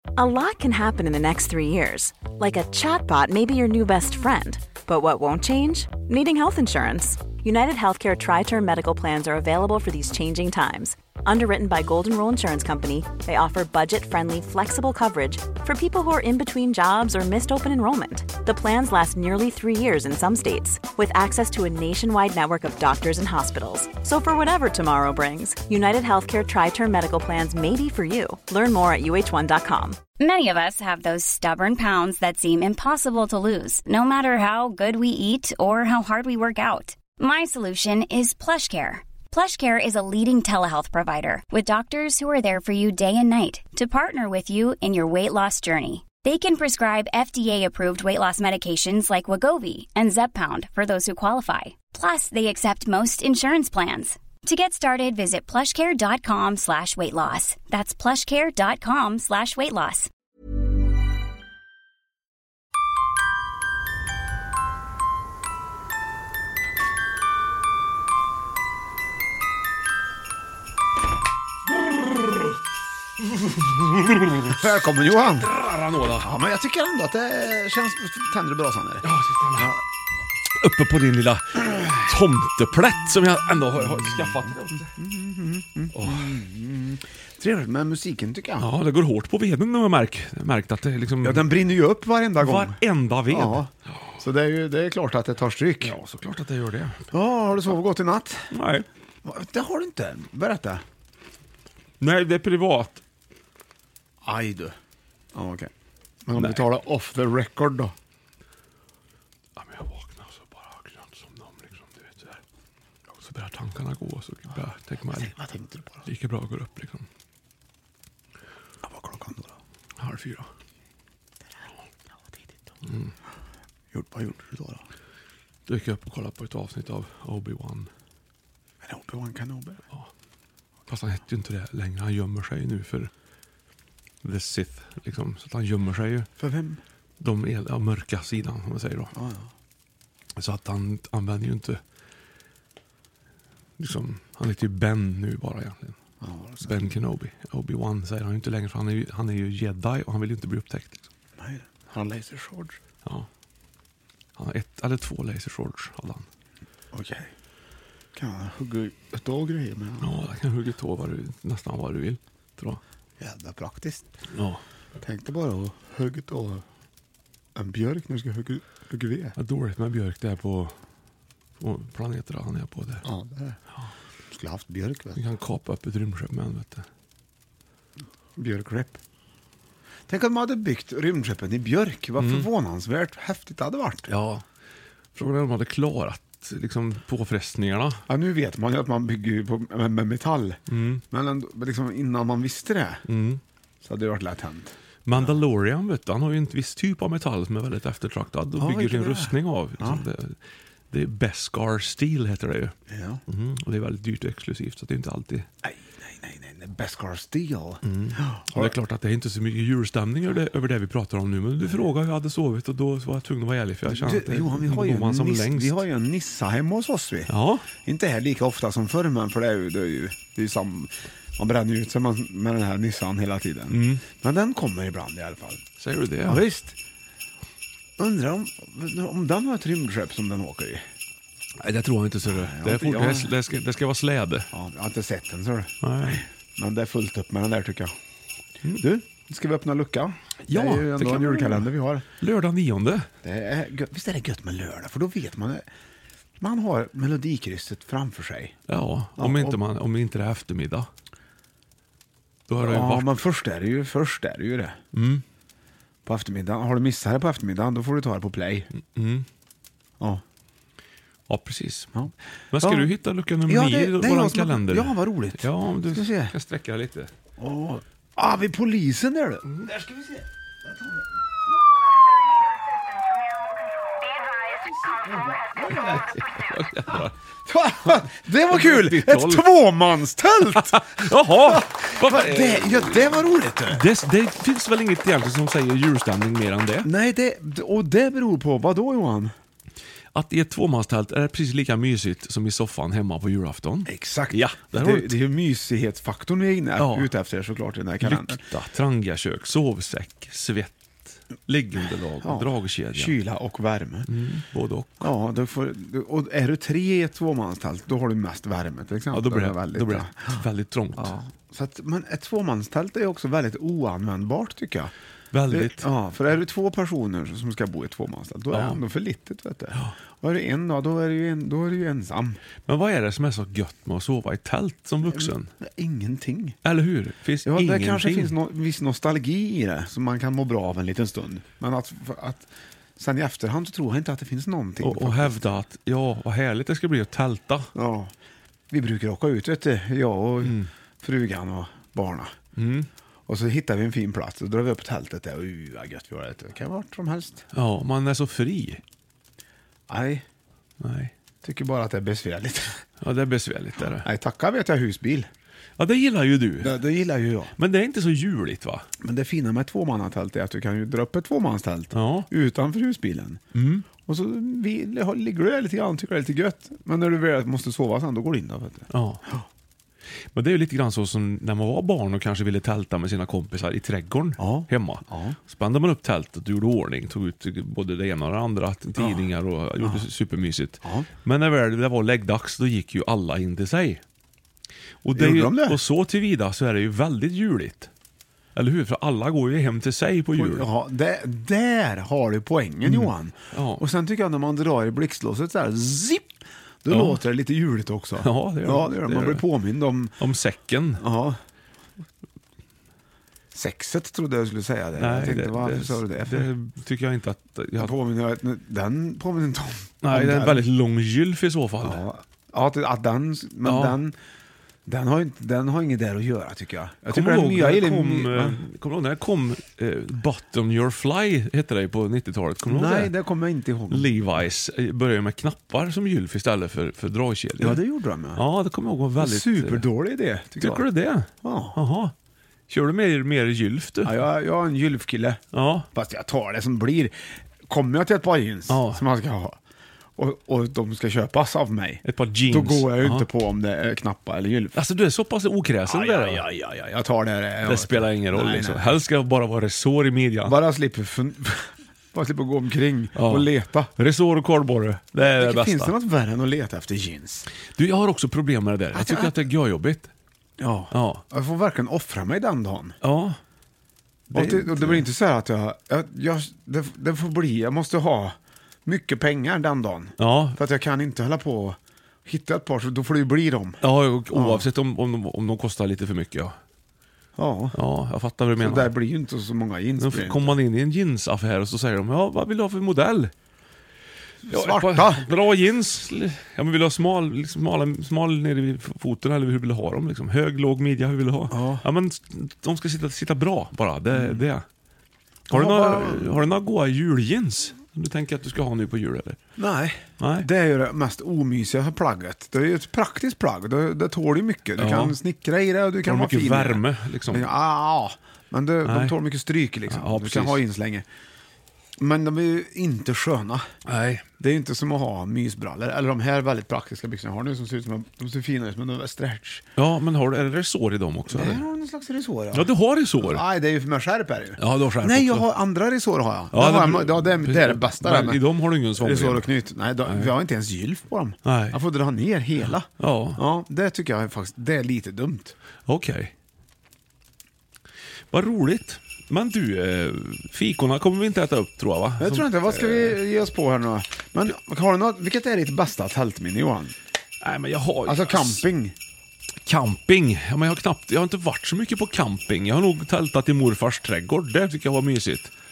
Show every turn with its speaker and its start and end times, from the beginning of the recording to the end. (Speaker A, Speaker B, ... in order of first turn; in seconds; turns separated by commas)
Speaker A: 0.2-10.6, Speaker A: 11.3-29.9, Speaker B: 30.2-60.1, Speaker C: 71.8-72.6, Speaker C: 73.4-74.6, Speaker D: 74.5-75.5, Speaker C: 75.4-76.3, Speaker D: 76.2-79.0, Speaker C: 79.0-79.7, Speaker D: 79.6-79.8, Speaker C: 80.5-84.9, Speaker D: 84.9-88.7, Speaker C: 85.9-86.4, Speaker C: 88.6-91.5, Speaker D: 91.2-96.0, Speaker C: 92.4-94.0, Speaker C: 95.8-97.1, Speaker D: 97.1-98.5, Speaker C: 98.5-98.9, Speaker D: 99.2-100.8, Speaker C: 102.0-103.0, Speaker D: 104.2-104.8, Speaker D: 105.3-105.7, Speaker D: 106.3-107.9, Speaker C: 106.3-106.6, Speaker C: 109.6-112.4, Speaker C: 113.2-115.3, Speaker D: 115.1-116.1, Speaker C: 116.0-117.1, Speaker D: 118.8-119.6, Speaker C: 120.0-120.5, Speaker D: 123.9-124.8, Speaker C: 125.7-127.9, Speaker D: 128.8-129.8, Speaker C: 130.9-133.1, Speaker C: 134.2-136.3, Speaker D: 136.4-136.8, Speaker C: 137.2-139.1, Speaker D: 139.1-139.5, Speaker C: 140.4-141.8, Speaker C: 143.8-146.0, Speaker D: 146.2-146.8, Speaker C: 146.6-151.0, Speaker D: 151.4-152.8, Speaker C: 154.4-156.3, Speaker D: 156.9-157.3, Speaker D: 158.1-160.1, Speaker C: 160.0-162.8, Speaker D: 163.2-164.1, Speaker C: 164.3-164.6, Speaker D: 165.0-166.6, Speaker D: 167.6-169.4, Speaker C: 169.4-170.7, Speaker C: 171.6-173.1, Speaker D: 173.0-173.6, Speaker D: 174.3-175.2, Speaker C: 175.2-176.9, Speaker D: 178.4-179.0, Speaker D: 180.1-184.1, Speaker C: 182.2-182.5, Speaker C: 184.1-184.4, Speaker C: 185.2-188.0, Speaker D: 188.1-190.6, Speaker C: 190.7-191.0, Speaker D: 191.1-193.0, Speaker C: 193.1-193.4, Speaker D: 193.8-195.4, Speaker C: 195.1-200.4, Speaker D: 198.6-200.0, Speaker C: 200.9-202.8, Speaker D: 202.9-203.2, Speaker C: 203.3-205.5, Speaker D: 205.6-208.8, Speaker C: 207.8-215.8, Speaker D: 213.9-217.3, Speaker C: 217.3-217.7, Speaker D: 217.8-225.6, Speaker C: 223.7-224.0, Speaker C: 225.8-226.4, Speaker D: 226.3-226.8, Speaker D: 228.0-230.8, Speaker C: 231.6-234.5, Speaker D: 232.2-233.3, Speaker D: 234.5-237.9, Speaker C: 235.8-236.2, Speaker D: 238.8-242.1, Speaker C: 240.5-243.1, Speaker D: 243.2-245.7, Speaker D: 246.4-248.6, Speaker C: 248.7-250.9, Speaker D: 249.2-249.6, Speaker C: 252.5-253.1, Speaker D: 252.6-254.8, Speaker C: 254.9-255.2, Speaker D: 256.1-258.7, Speaker C: 258.7-259.3, Speaker C: 261.3-261.9, Speaker D: 261.9-262.9, Speaker C: 262.5-267.1, Speaker D: 263.5-266.3, Speaker D: 267.4-271.0, Speaker D: 274.8-276.0, Speaker C: 275.6-277.1, Speaker D: 277.4-283.9, Speaker C: 278.5-279.4, Speaker C: 280.4-286.9, Speaker D: 286.8-289.3, Speaker C: 290.1-295.1, Speaker D: 293.9-298.4, Speaker C: 296.8-297.1, Speaker C: 298.0-303.2, Speaker D: 302.2-304.1, Speaker C: 304.1-305.1, Speaker D: 305.0-310.4, Speaker C: 309.1-311.2, Speaker D: 311.0-314.9, Speaker C: 315.3-315.9, Speaker D: 315.5-322.4, Speaker C: 318.5-318.8, Speaker C: 322.7-325.5, Speaker D: 325.1-326.6, Speaker C: 326.6-328.4, Speaker D: 327.5-335.5, Speaker C: 334.8-337.7, Speaker D: 337.8-338.1, Speaker D: 338.7-342.3, Speaker C: 340.4-340.7, Speaker C: 342.6-342.9, Speaker D: 343.3-347.4, Speaker C: 347.5-348.8, Speaker D: 349.9-350.2, Speaker C: 350.8-351.1, Speaker D: 351.4-352.8, Speaker C: 353.0-354.1, Speaker D: 353.9-355.3, Speaker C: 355.8-356.7, Speaker D: 356.6-357.5, Speaker C: 357.6-358.9, Speaker D: 359.0-363.4, Speaker C: 361.9-362.3, Speaker C: 363.5-363.9, Speaker D: 364.0-369.4, Speaker C: 368.9-369.2, Speaker C: 370.3-384.0, Speaker D: 374.4-375.4, Speaker D: 379.0-379.3, Speaker D: 379.8-380.1, Speaker D: 380.8-381.1, Speaker C: 385.0-387.9, Speaker D: 385.2-385.8, Speaker C: 388.6-390.7, Speaker D: 390.4-396.3, Speaker C: 392.9-393.8, Speaker D: 396.8-400.2, Speaker C: 396.9-397.2, Speaker C: 398.2-399.5, Speaker C: 400.2-401.0, Speaker D: 401.0-401.4, Speaker D: 403.5-406.5, Speaker C: 405.0-407.9, Speaker D: 407.8-410.6, Speaker C: 410.0-412.0, Speaker D: 411.8-414.2, Speaker C: 413.6-414.0, Speaker D: 414.9-418.6, Speaker C: 417.1-423.1, Speaker D: 422.7-424.2, Speaker C: 423.9-427.8, Speaker D: 427.6-428.4, Speaker C: 428.4-429.9, Speaker D: 429.2-430.9, Speaker C: 430.6-432.1, Speaker D: 431.4-431.8, Speaker C: 432.7-434.2, Speaker D: 434.0-435.4, Speaker C: 435.5-435.9, Speaker D: 435.9-437.1, Speaker D: 437.7-439.6, Speaker C: 438.7-439.0, Speaker D: 440.2-444.8, Speaker C: 442.0-443.3, Speaker C: 444.8-446.5, Speaker D: 445.9-448.9, Speaker C: 447.6-450.6, Speaker D: 450.4-453.9, Speaker C: 453.1-455.9, Speaker D: 455.2-457.5, Speaker C: 457.7-460.1, Speaker D: 458.9-459.4, Speaker D: 460.6-463.0, Speaker C: 460.9-461.2, Speaker C: 463.0-463.4, Speaker C: 464.3-465.1, Speaker D: 464.3-473.8, Speaker C: 470.2-470.6, Speaker C: 473.8-476.6, Speaker D: 474.3-474.7, Speaker D: 477.4-477.8, Speaker C: 477.7-478.9, Speaker D: 478.6-480.6, Speaker C: 480.0-483.3, Speaker D: 484.5-485.3, Speaker C: 484.5-494.6, Speaker D: 491.5-491.8, Speaker D: 494.1-494.4, Speaker D: 495.5-496.4, Speaker C: 495.5-499.4, Speaker D: 499.6-511.1, Speaker C: 500.2-500.5, Speaker C: 504.8-505.2, Speaker C: 506.0-507.5, Speaker C: 508.9-509.2, Speaker C: 509.9-510.6, Speaker D: 512.0-513.6, Speaker C: 513.9-514.2, Speaker D: 514.4-519.7, Speaker C: 519.8-521.6, Speaker D: 521.3-528.4, Speaker C: 522.5-523.4, Speaker C: 524.6-525.5, Speaker C: 526.5-529.5, Speaker D: 529.0-535.5, Speaker C: 530.0-530.3, Speaker C: 531.5-531.8, Speaker C: 532.6-533.4, Speaker C: 535.9-536.3, Speaker C: 538.3-543.2, Speaker D: 542.2-546.9, Speaker C: 547.4-548.6, Speaker D: 548.1-549.0, Speaker C: 549.7-555.5